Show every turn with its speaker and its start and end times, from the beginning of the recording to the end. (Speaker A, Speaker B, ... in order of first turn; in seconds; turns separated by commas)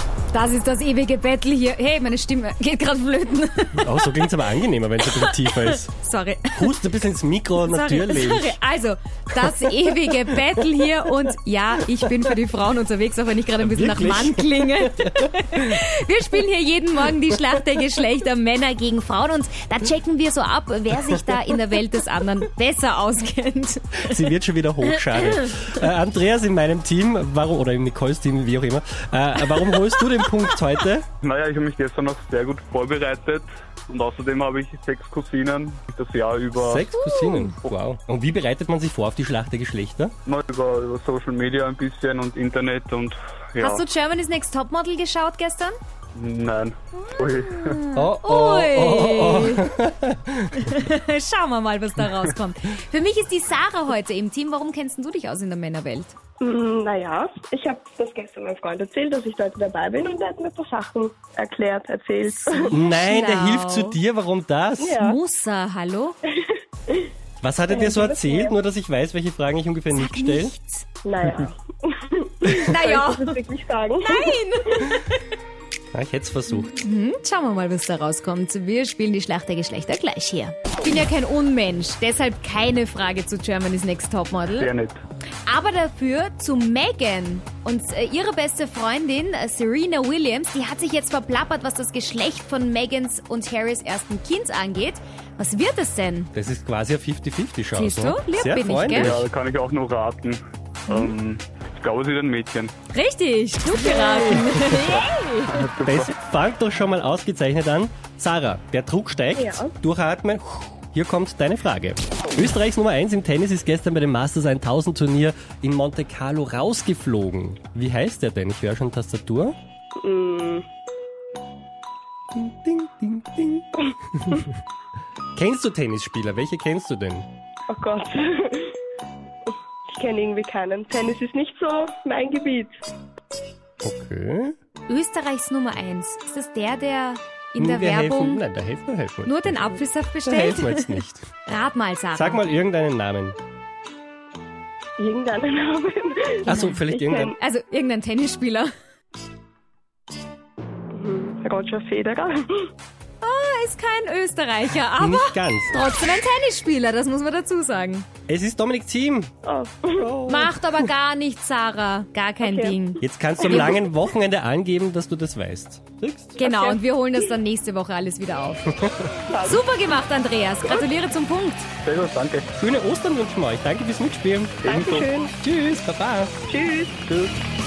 Speaker A: 0.3-6.7, Speaker B: 3.8-5.9, Speaker B: 6.5-8.6, Speaker A: 7.6-24.3, Speaker B: 9.4-10.6, Speaker B: 13.6-15.8, Speaker B: 24.0-31.1, Speaker A: 24.9-25.7, Speaker C: 31.2-36.9, Speaker B: 36.5-40.1, Speaker A: 36.9-37.5, Speaker C: 40.3-43.9, Speaker A: 43.6-45.8, Speaker C: 46.1-47.8, Speaker A: 47.1-49.8, Speaker B: 47.9-50.7, Speaker A: 50.5-56.1, Speaker D: 56.4-62.8, Speaker B: 62.7-64.9, Speaker A: 62.7-64.0, Speaker D: 64.8-65.2, Speaker A: 65.0-66.2, Speaker B: 67.4-70.5, Speaker D: 67.7-68.5, Speaker A: 69.9-70.8, Speaker D: 71.0-74.4, Speaker A: 72.5-73.4, Speaker A: 74.0-75.2, Speaker B: 75.9-76.7, Speaker A: 76.6-84.7, Speaker C: 84.6-85.0, Speaker A: 85.5-96.3, Speaker B: 96.3-99.3, Speaker A: 97.7-99.1, Speaker C: 98.9-102.7, Speaker A: 102.9-105.6, Speaker B: 104.3-104.6, Speaker C: 104.7-106.1, Speaker B: 105.8-119.5, Speaker D: 109.4-109.7, Speaker D: 120.0-120.7, Speaker B: 122.3-124.5, Speaker B: 125.4-127.3, Speaker D: 127.7-128.8, Speaker D: 129.5-132.7, Speaker B: 133.8-134.6, Speaker A: 134.9-138.4, Speaker B: 137.6-139.6, Speaker A: 139.2-142.4, Speaker B: 140.2-141.3, Speaker B: 142.2-143.4, Speaker D: 145.0-147.4, Speaker A: 146.5-146.8, Speaker B: 146.5-147.3, Speaker A: 147.4-148.7, Speaker D: 150.9-152.7, Speaker A: 153.2-158.1, Speaker B: 155.0-155.7, Speaker B: 158.3-159.3, Speaker D: 159.4-160.1, Speaker B: 159.9-160.9, Speaker A: 160.3-163.8, Speaker D: 162.4-162.8, Speaker B: 163.0-166.4, Speaker D: 163.4-163.8, Speaker A: 166.4-168.7, Speaker D: 166.4-166.8, Speaker B: 168.8-169.1, Speaker D: 169.3-169.7, Speaker A: 169.4-171.7, Speaker C: 171.8-172.5, Speaker B: 172.6-174.6, Speaker C: 174.6-175.1, Speaker D: 174.7-175.3, Speaker B: 175.4-176.3, Speaker D: 176.5-177.0, Speaker C: 177.1-177.3